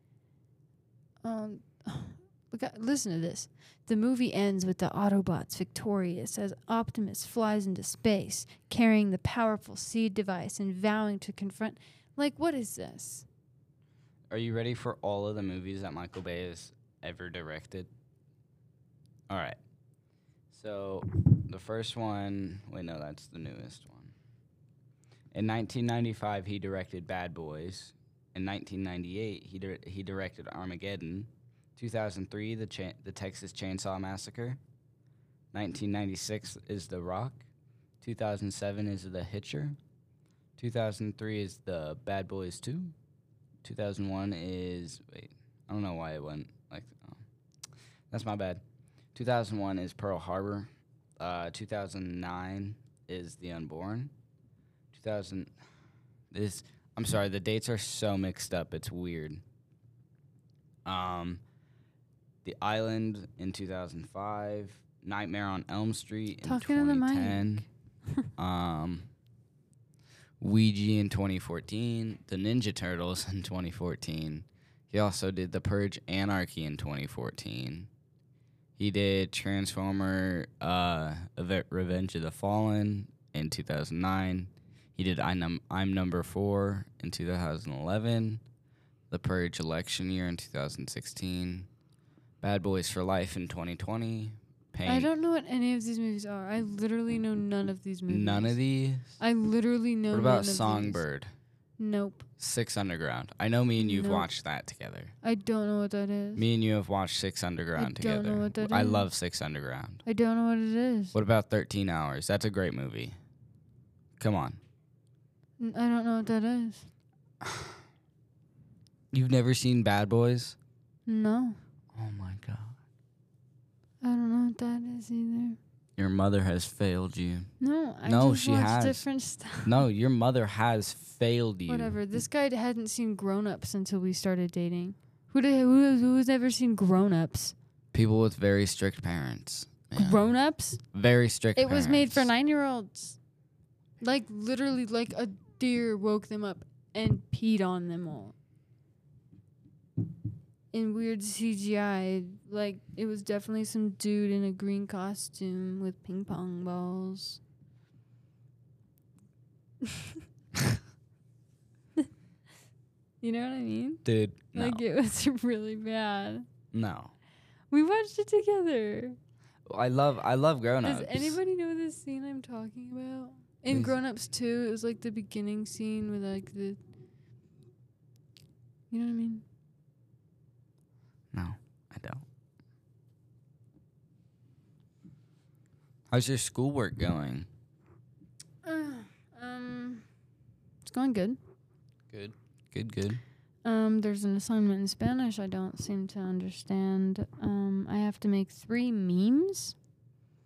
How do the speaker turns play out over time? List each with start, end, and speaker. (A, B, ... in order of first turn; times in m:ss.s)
0:01.2-0:13.3 A
0:14.3-0:17.9 B
0:19.3-0:19.6 B
0:20.5-0:24.1 B
0:25.3-0:34.6 B
0:35.5-0:37.5 B
0:38.0-0:39.8 B
0:40.6-0:42.9 B
0:43.6-0:47.2 B
0:48.1-0:48.6 B
0:49.2-0:54.1 B
0:54.9-0:55.5 B
0:56.3-0:59.4 B
1:00.9-1:01.4 B
1:02.4-1:07.7 B
1:06.4-1:08.3 A
1:08.4-1:09.1 B
1:10.4-1:17.9 B
1:18.8-1:28.4 B
1:29.1-1:31.7 B
1:32.4-1:35.1 B
1:34.9-1:38.6 A
1:38.1-1:39.1 B
1:39.2-1:41.0 A
1:40.1-1:41.3 B
1:41.8-1:42.3 A
1:42.4-1:45.1 B
1:43.8-1:44.3 A
1:45.2-1:46.5 A
1:46.4-1:50.0 B
1:47.8-1:49.1 A
1:50.0-1:51.2 A
1:51.1-1:53.2 B
1:54.2-1:54.6 B
1:55.6-1:56.9 A
1:57.4-1:57.7 B
1:59.1-2:00.6 B
2:01.1-2:01.6 A
2:01.9-2:02.8 B
2:04.0-2:05.6 A
2:06.0-2:07.5 B
2:07.6-2:09.8 A
2:08.1-2:09.0 B
2:09.6-2:12.0 B
2:11.7-2:17.6 A
2:17.9-2:20.3 B
2:20.0-2:20.8 A
2:20.9-2:22.3 B
2:21.6-2:23.2 A
2:24.0-2:28.4 A
2:30.7-2:37.4 A
2:39.8-2:40.2 A
2:43.2-2:44.0 A
2:44.0-2:44.8 B
2:44.5-2:46.5 A
2:46.7-2:47.1 B
2:47.7-2:49.2 A
2:49.7-2:51.4 B
2:50.8-2:56.8 A
2:53.7-2:54.0 B
2:58.9-2:59.4 A
3:01.3-3:02.2 B
3:06.1-3:07.5 B
3:08.6-3:10.1 A
3:10.8-3:11.4 A
3:12.1-3:13.2 B
3:13.6-3:19.8 A